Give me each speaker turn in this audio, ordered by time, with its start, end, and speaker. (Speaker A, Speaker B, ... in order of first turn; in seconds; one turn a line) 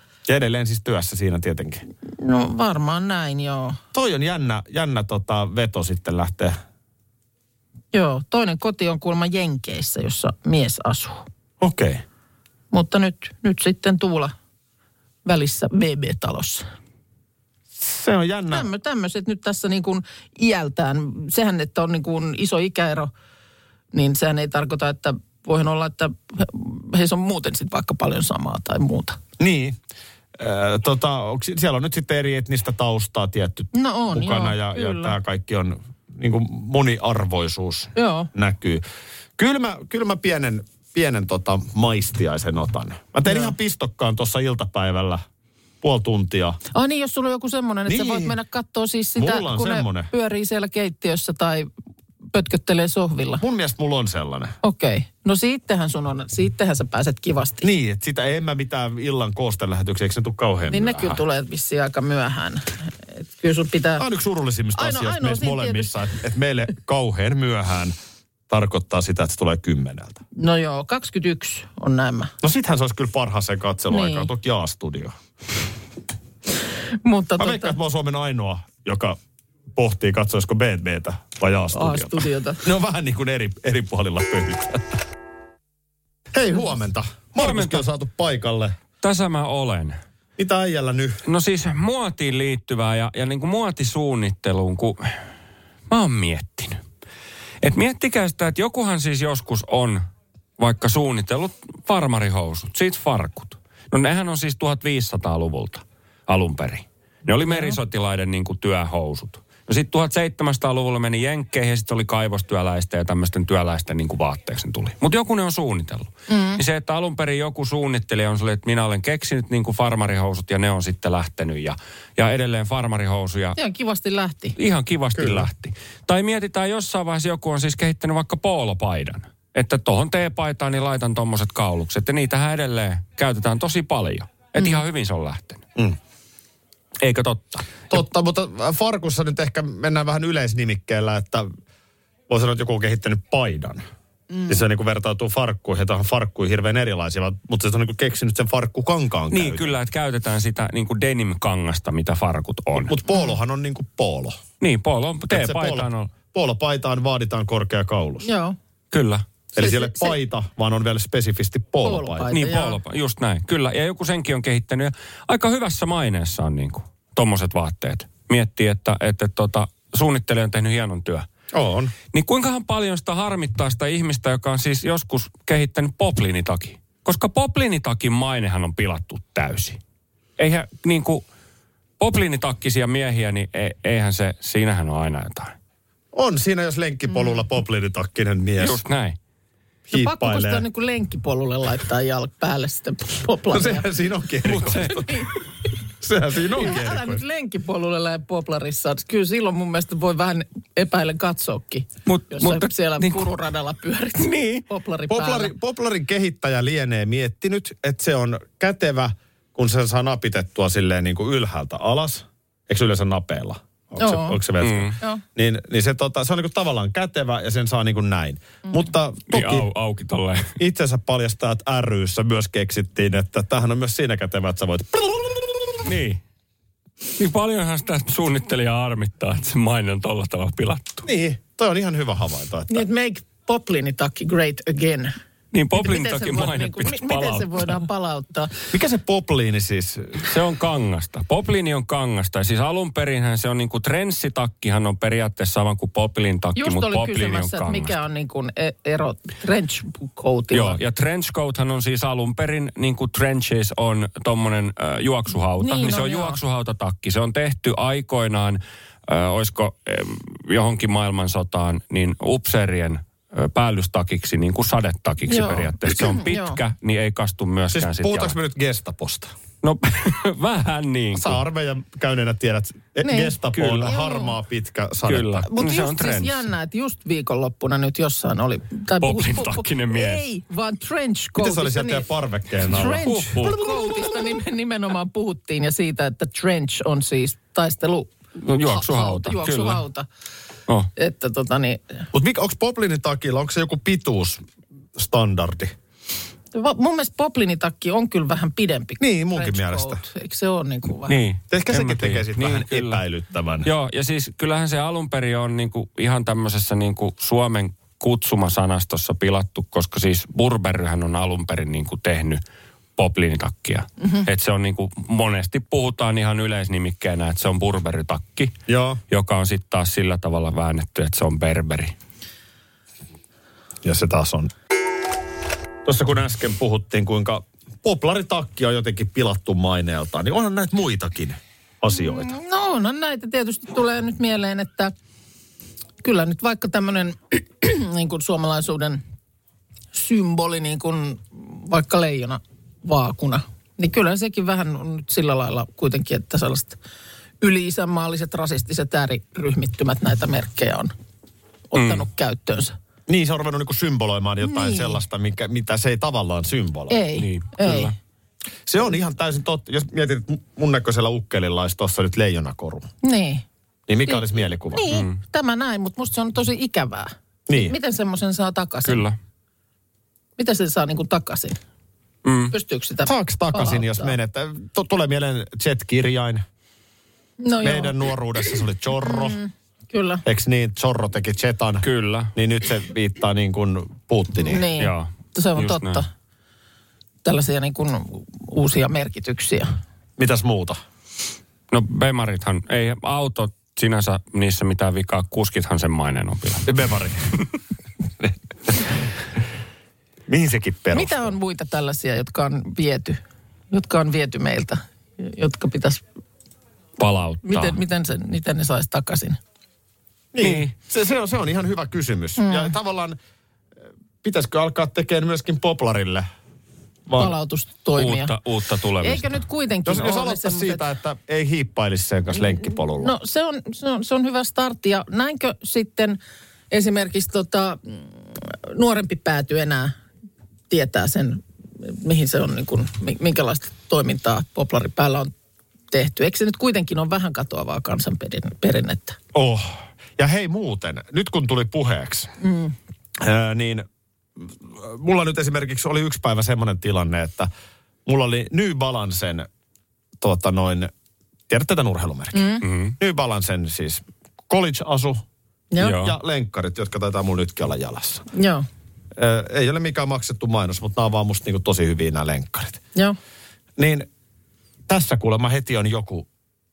Speaker A: 0.2-1.8
Speaker B: 2.1-3.8
Speaker A: 3.9-6.5
Speaker B: 7.9-11.2
Speaker A: 11.6-12.0
Speaker B: 12.7-14.3
Speaker B: 15.2-16.7
Speaker A: 17.8-18.7
Speaker B: 18.5-23.1
Speaker B: 23.9-29.2
Speaker A: 29.4-29.8
Speaker A: 30.4-38.8
Speaker B: 33.7-35.1
Speaker B: 38.0-38.3
Speaker A: 39.4-45.2
Speaker B: 43.2-43.5
Speaker A: 45.8-46.6
Speaker B: 46.7-51.7
Speaker A: 47.9-48.3
Speaker A: 49.1-50.1
Speaker B: 52.3-53.4
Speaker A: 53.4-54.5
Speaker B: 54.6-57.7
Speaker A: 57.6-61.2
Speaker B: 60.7-64.0
Speaker A: 64.0-67.9
Speaker B: 64.7-65.9
Speaker A: 68.5-70.2
Speaker B: 70.3-72.3
Speaker A: 72.4-75.1
Speaker B: 73.9-74.3
Speaker B: 77.0-77.8
Speaker A: 77.4-79.2
Speaker A: 79.8-84.9
Speaker B: 81.7-82.6
Speaker A: 86.3-88.7
Speaker C: 87.3-87.8
Speaker C: 89.0-90.0
Speaker A: 90.4-91.2
Speaker C: 91.3-95.0
Speaker C: 95.9-96.8
Speaker C: 97.6-100.0
Speaker C: 100.6-123.6
Speaker B: 107.5-107.8
Speaker B: 116.3-116.6
Speaker B: 123.6-124.5
Speaker C: 124.6-135.6
Speaker A: 125.2-125.5
Speaker B: 134.6-134.8
Speaker C: 137.0-137.9
Speaker A: 137.9-141.5
Speaker A: 142.3-143.8
Speaker B: 144.3-144.6
Speaker A: 144.5-149.8
Speaker C: 149.3-152.9
Speaker A: 152.8-154.4
Speaker B: 153.1-153.3
Speaker C: 154.6-156.1
Speaker A: 155.3-158.3
Speaker B: 158.2-158.6
Speaker C: 158.9-159.2
Speaker A: 159.5-162.3
Speaker B: 159.6-160.2
Speaker B: 161.8-162.8
Speaker C: 162.3-171.3
Speaker A: 171.5-171.9
Speaker C: 172.1-179.8
Speaker C: 180.4-181.2
Speaker C: 182.0-185.6
Speaker A: 186.1-188.8
Speaker C: 188.6-189.2
Speaker A: 189.9-190.7
Speaker B: 189.9-193.9
Speaker A: 193.5-195.2
Speaker C: 194.5-194.9
Speaker B: 194.8-195.3
Speaker A: 196.0-197.2
Speaker B: 196.5-205.5
Speaker C: 202.1-203.3
Speaker C: 204.2-204.6
Speaker A: 205.1-219.7
Speaker B: 214.0-214.4
Speaker C: 214.6-215.0
Speaker C: 219.3-220.5
Speaker A: 220.6-225.9
Speaker C: 225.8-226.2
Speaker C: 227.2-231.1
Speaker A: 231.1-232.8
Speaker B: 232.7-235.1
Speaker C: 235.5-237.8
Speaker B: 235.8-238.5
Speaker A: 238.7-240.3
Speaker C: 240.2-247.9
Speaker B: 246.6-250.8
Speaker C: 250.5-268.3
Speaker B: 255.6-256.4
Speaker B: 265.3-266.6
Speaker A: 267.7-269.3
Speaker C: 269.6-271.4
Speaker A: 271.1-275.4
Speaker B: 273.0-274.3
Speaker C: 273.6-273.8
Speaker C: 275.1-276.5
Speaker B: 275.4-282.1
Speaker C: 279.0-280.2
Speaker A: 281.4-283.1
Speaker B: 282.6-290.1
Speaker C: 283.0-284.1
Speaker C: 288.4-289.8
Speaker B: 291.0-292.1
Speaker A: 292.1-294.4
Speaker A: 294.9-295.7
Speaker B: 296.5-301.2
Speaker A: 299.0-300.0
Speaker C: 301.1-303.0
Speaker A: 301.5-303.7
Speaker C: 303.6-312.4
Speaker C: 313.0-318.5
Speaker A: 318.7-319.0
Speaker C: 319.1-321.9
Speaker A: 323.8-324.5
Speaker A: 325.8-332.3
Speaker B: 331.9-334.9
Speaker B: 336.0-339.0
Speaker B: 339.9-346.8
Speaker B: 347.4-350.9
Speaker B: 351.7-352.7
Speaker C: 351.7-352.0
Speaker A: 353.1-357.0
Speaker B: 354.4-355.0
Speaker B: 356.9-357.9
Speaker C: 357.2-357.9
Speaker A: 358.6-362.9
Speaker B: 363.0-363.4
Speaker A: 363.9-364.8
Speaker B: 364.7-369.0
Speaker C: 364.9-365.2
Speaker A: 367.5-367.8
Speaker C: 368.8-369.1
Speaker B: 370.4-371.6
Speaker C: 372.2-372.5
Speaker B: 372.5-374.1
Speaker A: 373.0-376.4
Speaker B: 377.4-378.0
Speaker A: 377.6-379.4
Speaker B: 379.0-380.2
Speaker A: 380.2-384.7
Speaker C: 381.8-382.3
Speaker B: 384.4-386.1
Speaker C: 384.8-386.0
Speaker B: 387.2-389.7
Speaker A: 390.2-390.8
Speaker C: 391.7-396.7
Speaker A: 396.6-397.3
Speaker A: 400.3-401.3
Speaker B: 400.9-403.2
Speaker B: 403.7-406.0
Speaker C: 407.0-407.8
Speaker B: 407.4-409.4
Speaker A: 410.3-413.2
Speaker C: 410.4-410.7
Speaker B: 412.4-412.7
Speaker A: 414.2-416.3
Speaker A: 417.1-417.3
Speaker B: 417.2-418.3
Speaker C: 418.0-419.4
Speaker B: 419.0-420.8
Speaker A: 419.8-423.1
Speaker B: 423.0-426.2
Speaker B: 426.7-429.9
Speaker B: 430.7-435.3
Speaker B: 435.9-439.2
Speaker A: 439.3-442.3
Speaker B: 442.4-442.8
Speaker A: 443.2-443.9
Speaker A: 444.4-447.5
Speaker A: 448.1-449.5
Speaker A: 450.2-450.9
Speaker A: 451.5-455.2
Speaker B: 452.3-452.6
Speaker C: 452.6-452.9
Speaker C: 455.8-456.1
Speaker A: 455.9-458.2
Speaker B: 458.3-458.6
Speaker A: 459.1-462.8
Speaker A: 463.8-464.1
Speaker A: 464.9-466.3